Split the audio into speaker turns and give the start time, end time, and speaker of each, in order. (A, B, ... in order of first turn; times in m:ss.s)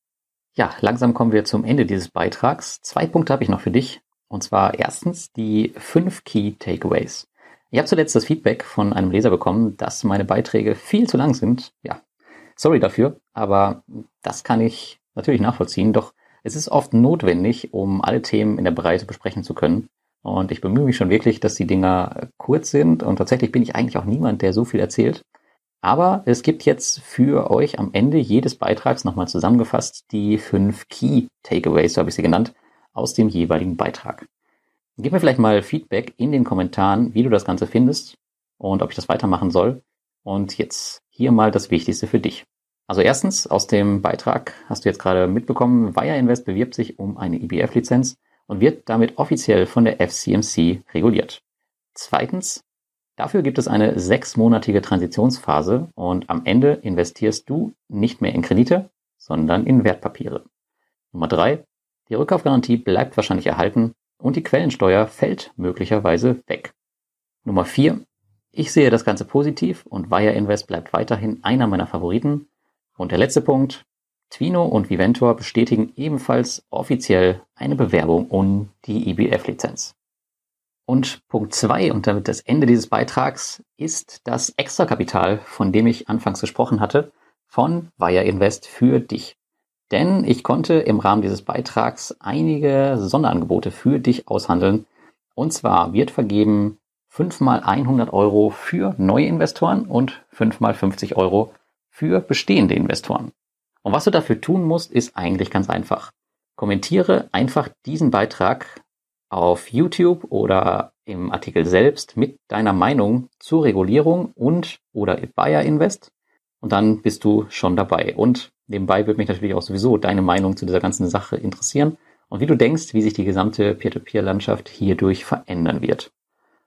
0:00.6-0:12.0 A
0:12.6-0:25.2 A
0:25.8-0:34.3 A
0:35.0-0:51.4 A
0:51.9-0:52.6 A
0:53.2-1:00.4 A
1:01.1-1:06.8 A
1:07.4-1:20.0 A
1:20.9-1:29.4 A
1:29.9-1:34.9 A
1:35.4-1:43.3 A
1:43.8-2:06.1 A